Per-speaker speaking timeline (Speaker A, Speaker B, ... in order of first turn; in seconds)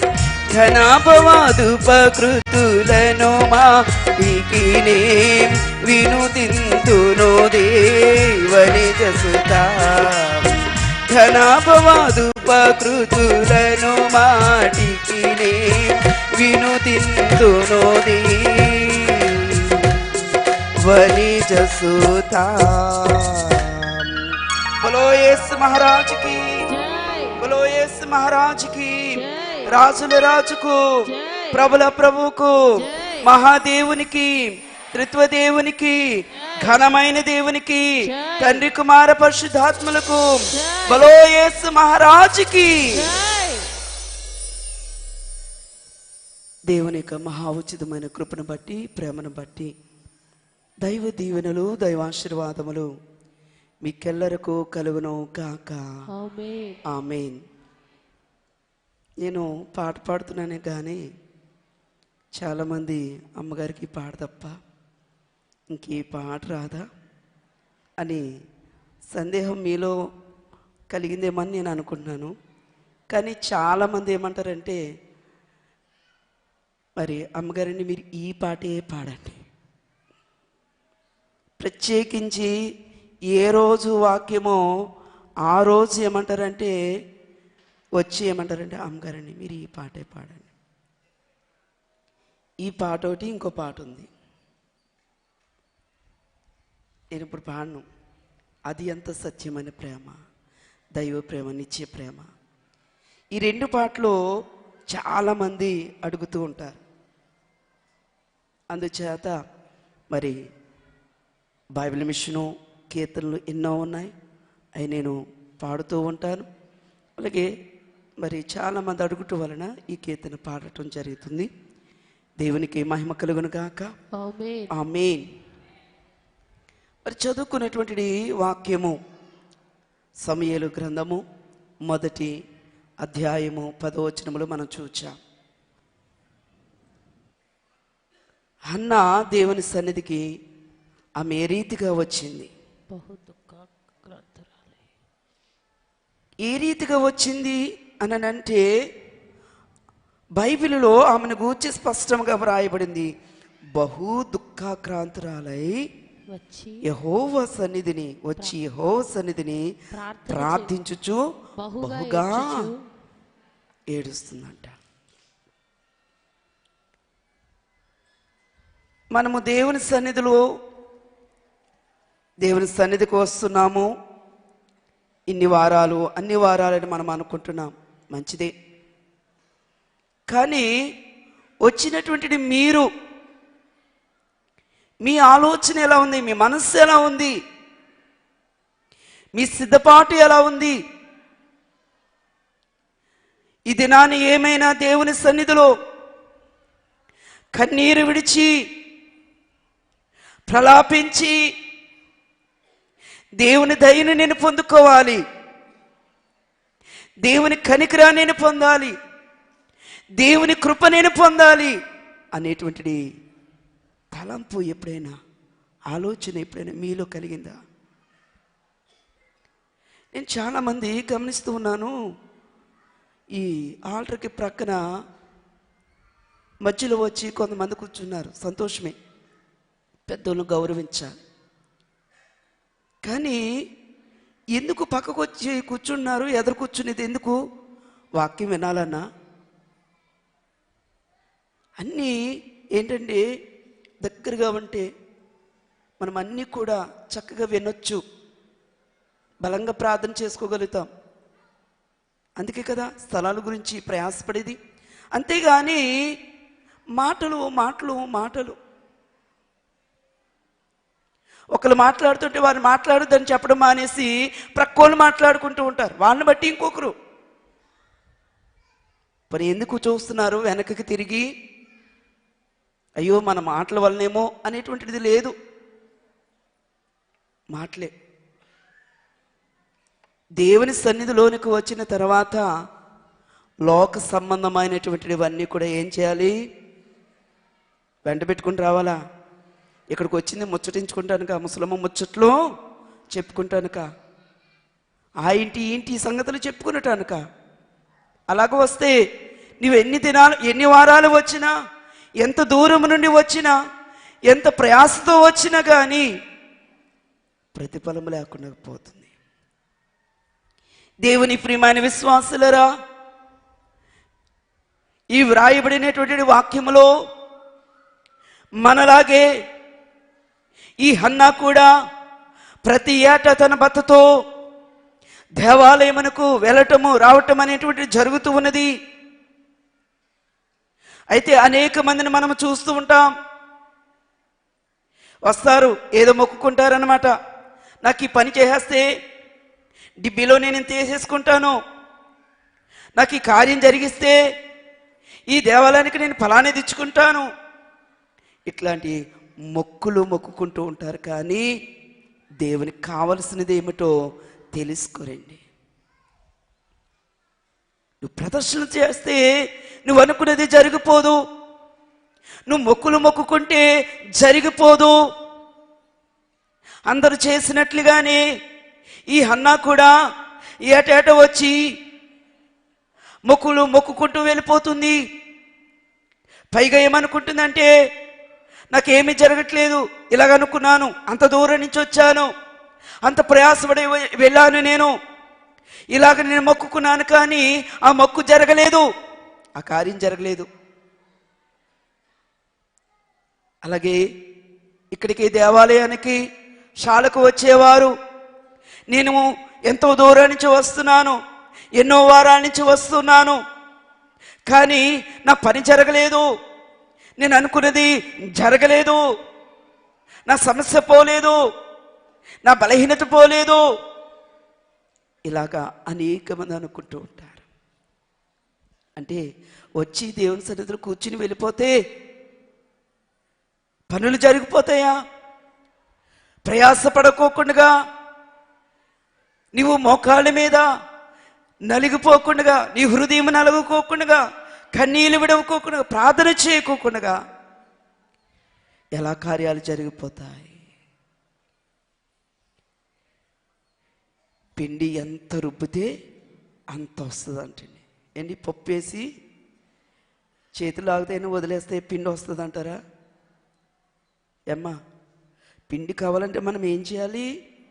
Speaker A: 0.5-20.0, 20.8-24.3, 24.8-26.4, 27.4-29.1, 29.6-31.0, 31.5-36.0, 36.6-43.1, 46.7-49.7, 50.8-52.9, 53.8-55.8, 56.9-57.4, 59.2-61.0, 62.4-64.5, 65.7-66.8, 69.1-69.9, 70.9-72.3, 73.1-74.8, 77.0-79.4, 81.6-82.5, 83.3-84.6, 85.5-86.7, 88.0-90.5, 92.6-94.1, 97.1-97.8, 98.7-100.2, 101.0-102.3, 103.3-104.1, 104.9-106.8, 108.7-109.3, 111.8-114.1, 114.8-116.5, 117.2-117.5, 118.2-121.5, 122.4-123.9, 124.7-125.2, 127.0-128.9, 130.2-131.2, 131.9-132.3, 133.0-135.1, 138.7-140.2, 141.2-142.5, 146.4-148.6, 150.4-153.1, 153.8-155.8, 156.8-159.6, 160.3-161.2, 161.8-162.6, 163.9-164.7, 169.1-170.4, 172.4-173.9, 175.3-178.5, 180.3-180.7, 181.6-182.8, 185.0-187.3, 189.4-190.7, 193.7-195.7, 197.6-198.5, 200.5-201.3, 203.4-205.2, 207.2-208.9, 210.2-211.7, 212.3-213.0, 214.1-215.2, 215.9-217.6, 220.1-221.9, 223.3-224.8, 226.6-228.9, 230.1-231.1, 233.0-233.4, 234.5-237.4, 238.2-239.0, 241.8-242.1, 242.8-243.2, 244.0-244.8, 246.0-248.0, 249.4-250.9, 252.4-254.6, 255.2-255.8, 257.0-258.6, 261.5-266.9, 269.3-271.2, 273.0-275.3, 277.5-277.9, 280.4-282.4, 283.7-286.3, 288.1-289.0, 289.9-292.3, 293.1-293.9, 295.2-297.2, 298.3-298.9, 299.6-301.5, 302.2-303.6, 304.3-306.0, 307.5-309.1, 311.0-312.7, 315.1-316.9, 318.6-319.2, 320.8-321.7, 322.6-324.0, 325.4-328.7, 331.1-333.1, 335.3-337.1, 337.8-338.8, 340.0-341.5, 342.9-344.2, 345.3-347.2, 348.5-349.0, 349.5-351.4, 352.4-353.9, 354.5-355.4, 358.0-359.2, 359.9-361.2, 362.5-363.6, 364.2-364.9, 366.9-368.2, 369.1-369.9, 370.7-371.5, 373.3-375.0, 376.5-377.7, 378.7-382.3, 383.1-384.9, 385.9-388.8, 389.6-390.5, 393.6-394.0, 394.9-396.2, 396.8-397.9, 398.9-401.1, 401.8-403.4, 404.5-406.2, 407.2-409.0, 410.3-411.4, 412.4-413.6, 415.3-417.4, 419.8-421.7, 423.9-424.9, 426.4-427.7, 429.5-430.6, 431.7-434.2, 434.7-437.1, 439.0-440.5, 444.6-445.9, 446.7-449.0, 450.6-452.8, 455.7-457.3
Speaker B: 26.7-27.4, 29.1-29.7, 31.1-31.7, 32.8-33.2, 38.0-38.6, 40.5-41.0, 42.9-43.7, 56.1-56.8, 124.1-124.7, 142.9-144.8, 156.3-156.8, 159.9-160.7, 161.6-162.8